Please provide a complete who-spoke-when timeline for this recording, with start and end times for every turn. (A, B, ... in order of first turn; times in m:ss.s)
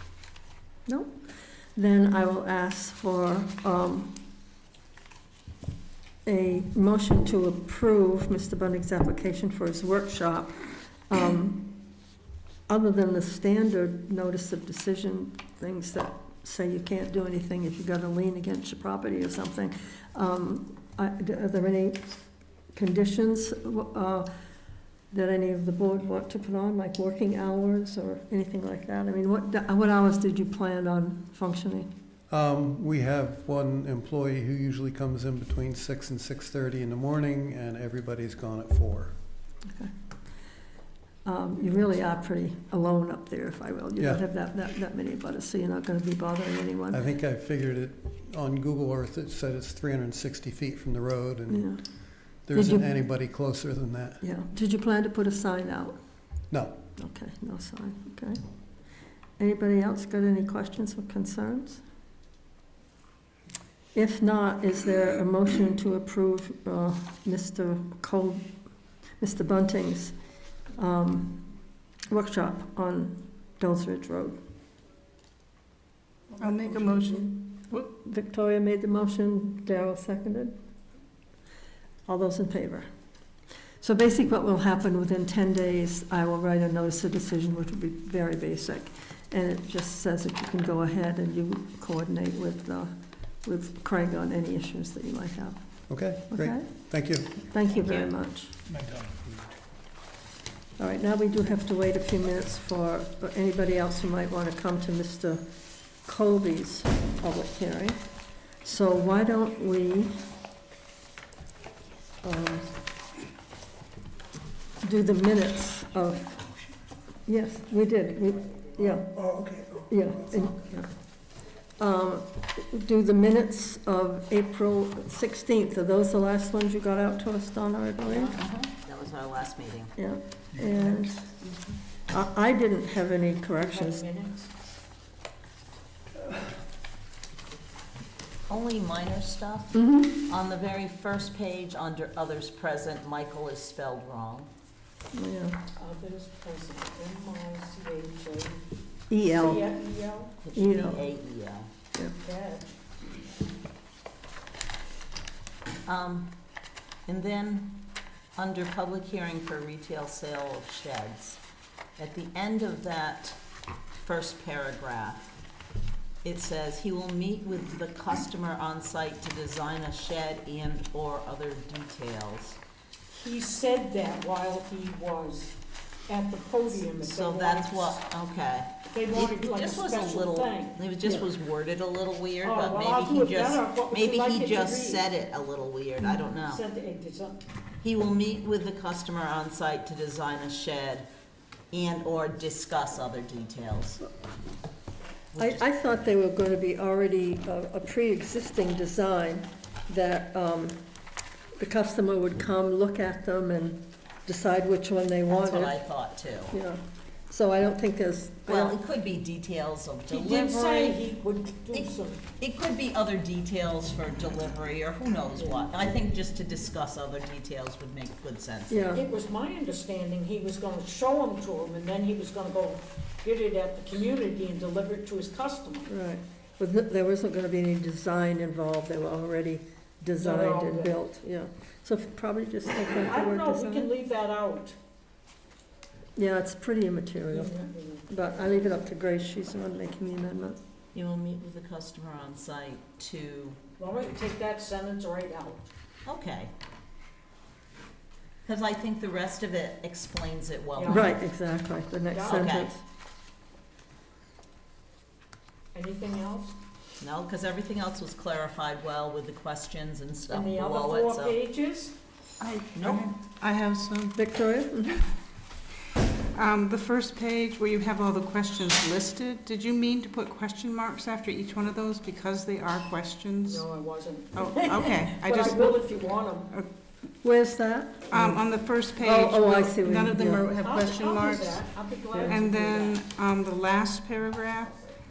0:00.9-0:01.2 A
0:01.8-0:04.2 A
0:06.3-0:10.6 A
0:11.1-0:11.8 A
0:12.7-0:22.1 A
0:22.7-0:24.3 A
0:25.1-0:31.9 A
0:32.3-0:39.2 B
0:41.2-0:47.0 A
0:46.9-0:51.7 B
0:51.5-0:51.8 A
0:52.4-0:54.2 B
0:52.5-0:52.9 A
0:54.2-0:56.0 A
0:56.5-0:56.8 B
0:57.0-0:58.4 A
0:59.4-1:01.8 A
1:03.9-1:08.5 A
1:09.2-1:10.2 A
1:10.8-1:11.5 A
1:12.1-1:14.4 A
1:16.4-1:17.3 C
1:17.5-1:20.6 A
1:22.1-1:22.9 A
1:23.8-1:32.9 A
1:33.4-1:35.6 A
1:35.9-1:37.4 B
1:36.3-1:36.7 A
1:37.4-1:38.6 A
1:37.8-1:38.1 D
1:40.8-1:45.4 A
1:46.1-1:48.0 A
1:48.6-1:50.2 A
1:52.2-1:52.7 A
1:54.8-1:56.4 A
1:57.3-1:59.3 A
1:59.9-2:00.9 A
2:01.8-2:08.4 A
2:08.1-2:08.4 E
2:08.4-2:10.0 D
2:10.0-2:11.3 A
2:12.1-2:14.0 A
2:13.6-2:14.6 E
2:18.5-2:24.5 D
2:19.7-2:20.2 A
2:25.1-2:25.6 A
2:25.8-2:28.7 E
2:29.1-2:29.6 A
2:29.4-2:30.4 E
2:30.4-2:31.7 D
2:30.5-2:31.0 A
2:32.2-2:32.8 E
2:35.9-2:36.4 D
2:37.1-2:41.4 D
2:42.0-2:43.4 D
2:44.0-2:45.3 D
2:46.2-2:52.6 D
2:53.1-2:58.0 E
2:56.8-3:06.6 D
2:58.9-3:00.8 E
3:02.4-3:05.0 E
3:06.0-3:07.5 E
3:07.8-3:11.1 D
3:11.7-3:14.0 D
3:15.3-3:15.6 D
3:15.4-3:20.8 A
3:21.6-3:25.8 A
3:25.3-3:26.5 D
3:26.5-3:28.8 A
3:28.5-3:31.0 D
3:30.1-3:32.2 E
3:31.7-3:39.0 D
3:35.4-3:35.7 E
3:38.7-3:39.0 A
3:38.9-3:45.9 E
3:45.9-3:53.9 A
3:50.2-3:51.0 E
3:53.0-3:54.8 E
3:56.2-3:57.6 A
3:57.3-3:58.7 E
3:58.1-4:00.6 A
4:00.9-4:03.6 D
4:03.8-4:05.7 E
4:06.0-4:06.5 D
4:08.4-4:11.2 D
4:10.8-4:11.2 E
4:10.9-4:12.8 A
4:12.1-4:12.7 E
4:12.3-4:12.7 D
4:15.7-4:16.6 E
4:17.0-4:21.4 D
4:20.3-4:22.0 E
4:22.4-4:24.2 C
4:22.8-4:23.1 D
4:24.2-4:25.0 A
4:26.3-4:33.7 C
4:33.5-4:36.5 E
4:34.3-4:35.8 C
4:35.4-4:35.8 A
4:37.2-4:38.4 A
4:38.1-4:41.6 C
4:39.0-4:40.5 A
4:40.6-4:43.0 E
4:42.3-4:44.8 C